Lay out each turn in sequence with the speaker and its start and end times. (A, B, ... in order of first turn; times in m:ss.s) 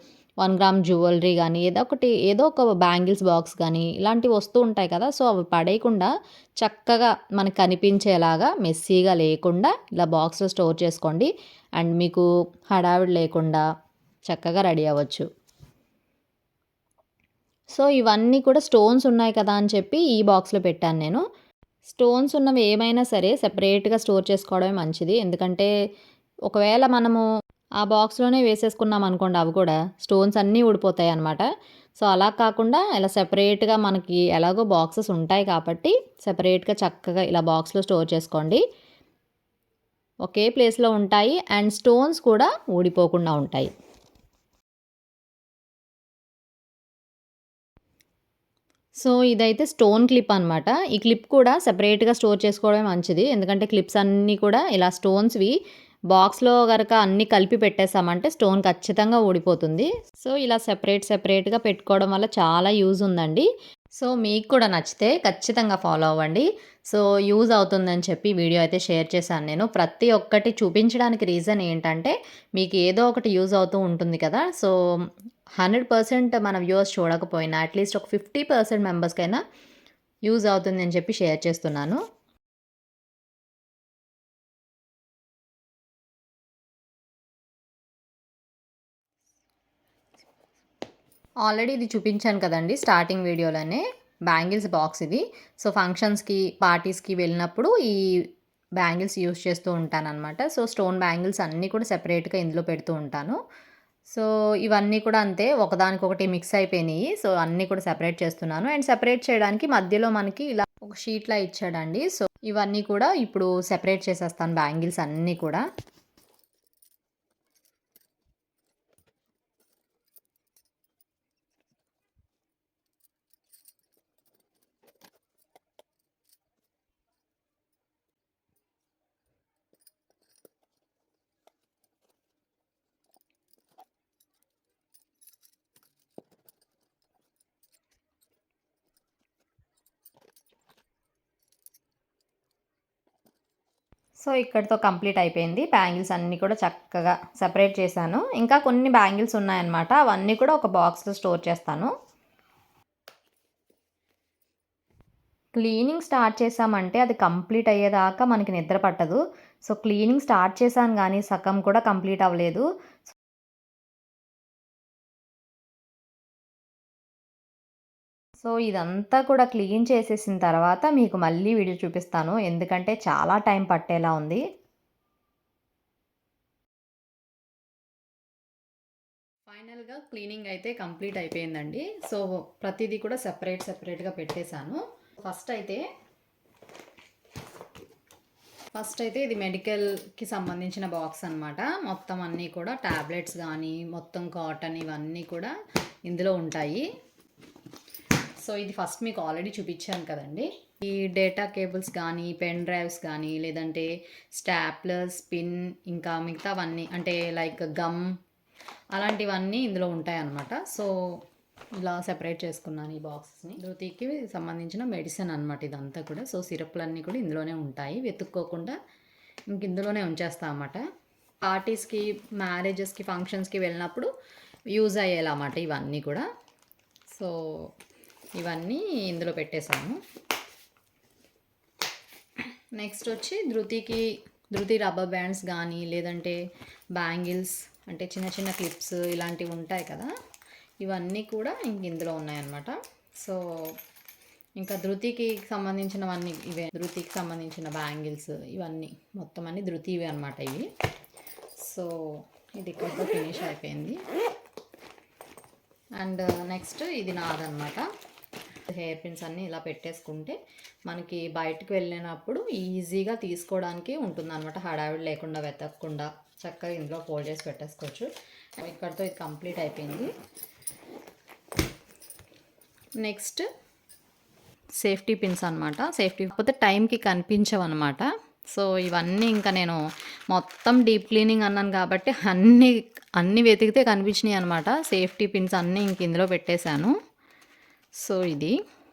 0:00.4-0:06.1 A
0:06.6-0:13.6 A
0:14.3-0:15.3 A
0:17.7-0:21.2 A
0:21.8-0:25.7 A
0:26.5-0:27.2 A
0:27.8-0:31.4 A
0:32.0-0:38.6 A
0:40.2-0:43.7 A
0:49.0-0:55.5 A
0:56.1-1:03.5 A
1:04.0-1:14.7 A
1:15.6-1:19.4 A
1:20.3-1:22.0 A
1:31.4-1:38.0 A
1:38.8-1:43.4 A
1:44.1-1:55.6 A
2:24.2-2:31.9 A
2:35.5-2:42.6 A
2:48.4-2:54.4 A
2:59.5-3:05.8 A
3:08.7-3:15.5 A
3:16.1-3:16.9 A
3:18.4-3:28.1 A
3:28.9-3:30.9 A
3:31.8-3:38.8 A
3:39.5-3:40.8 A
3:41.4-3:44.1 A
3:44.7-3:46.2 A
3:48.4-3:50.0 A
3:52.4-3:56.4 A
3:56.9-4:00.1 A
4:00.8-4:03.4 A
4:04.6-4:10.7 A
4:11.6-4:12.0 A
4:12.6-4:14.0 A
4:16.0-4:17.8 A
4:18.7-4:30.1 A
4:33.0-4:33.4 A
4:34.8-4:46.9 A
4:48.0-4:48.6 A